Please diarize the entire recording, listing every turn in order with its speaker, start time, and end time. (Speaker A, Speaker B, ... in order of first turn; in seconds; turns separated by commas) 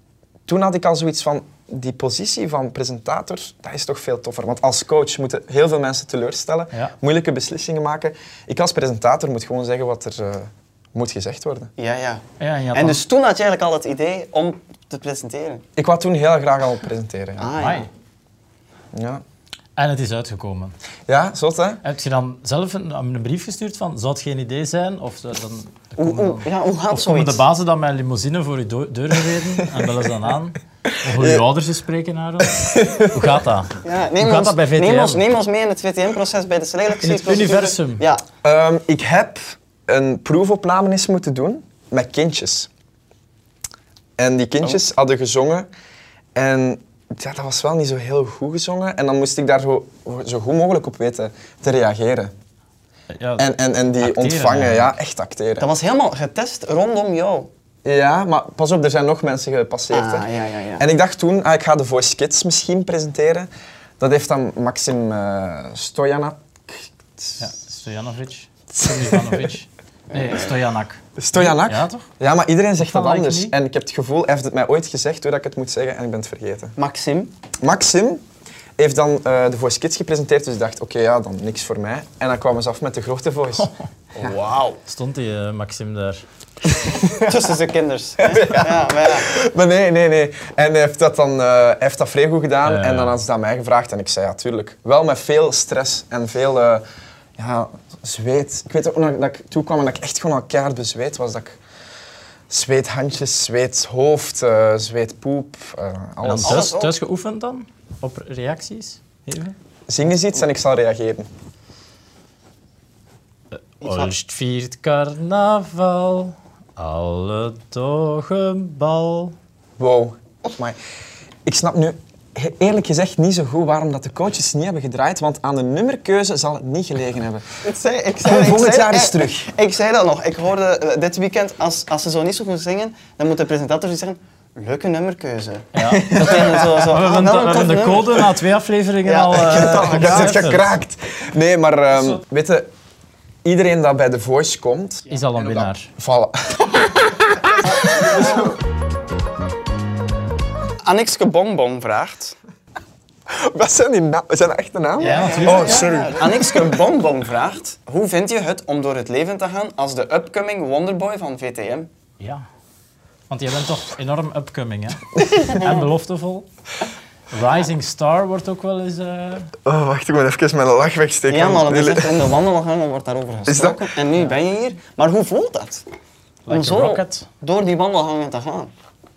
Speaker A: 0.5-11.7, Speaker B: 11.8-15.6, Speaker C: 12.4-13.0, Speaker A: 15.8-17.5, Speaker B: 17.4-17.9, Speaker C: 17.6-17.9, Speaker A: 18.9-19.2, Speaker C: 19.8-20.7, Speaker A: 21.1-21.8, Speaker C: 21.8-35.3, Speaker B: 26.0-27.4, Speaker A: 30.9-31.4, Speaker A: 32.4-33.4, Speaker B: 33.8-38.2, Speaker C: 37.0-38.1, Speaker A: 38.4-42.7, Speaker A: 44.2-45.7, Speaker A: 46.4-52.3, Speaker C: 53.1-53.5, Speaker A: 53.4-55.7, Speaker C: 54.0-54.9, Speaker B: 55.6-57.5, Speaker A: 57.9-67.5, Speaker B: 59.9-60.9, Speaker C: 67.4-72.1, Speaker A: 68.8-69.5, Speaker B: 70.1-70.4, Speaker A: 71.2-76.8, Speaker C: 72.8-73.5, Speaker B: 76.8-77.3, Speaker A: 77.6-78.2, Speaker A: 78.8-83.7, Speaker B: 84.2-84.8, Speaker C: 84.8-86.2, Speaker A: 86.7-87.4, Speaker B: 87.2-89.3, Speaker A: 88.2-96.8, Speaker C: 92.7-93.2, Speaker A: 97.4-101.6, Speaker A: 102.5-106.7, Speaker C: 106.2-109.5, Speaker B: 106.4-107.0, Speaker A: 109.9-111.3, Speaker C: 113.5-119.3, Speaker B: 113.8-114.1, Speaker A: 119.8-120.8, Speaker A: 121.5-127.5, Speaker B: 127.6-138.4, Speaker A: 128.2-129.5, Speaker C: 135.7-140.7, Speaker A: 135.9-136.8, Speaker B: 139.0-140.5, Speaker A: 139.5-142.7, Speaker A: 143.4-148.5, Speaker C: 145.1-145.9, Speaker B: 150.8-152.3, Speaker A: 153.3-156.8, Speaker B: 155.0-161.9, Speaker C: 155.0-156.2, Speaker C: 162.2-162.4, Speaker C: 163.3-166.5, Speaker B: 165.2-165.9, Speaker C: 167.3-169.5, Speaker A: 169.6-172.3, Speaker B: 171.3-175.8, Speaker A: 173.5-173.9, Speaker C: 176.5-177.3, Speaker B: 176.5-178.7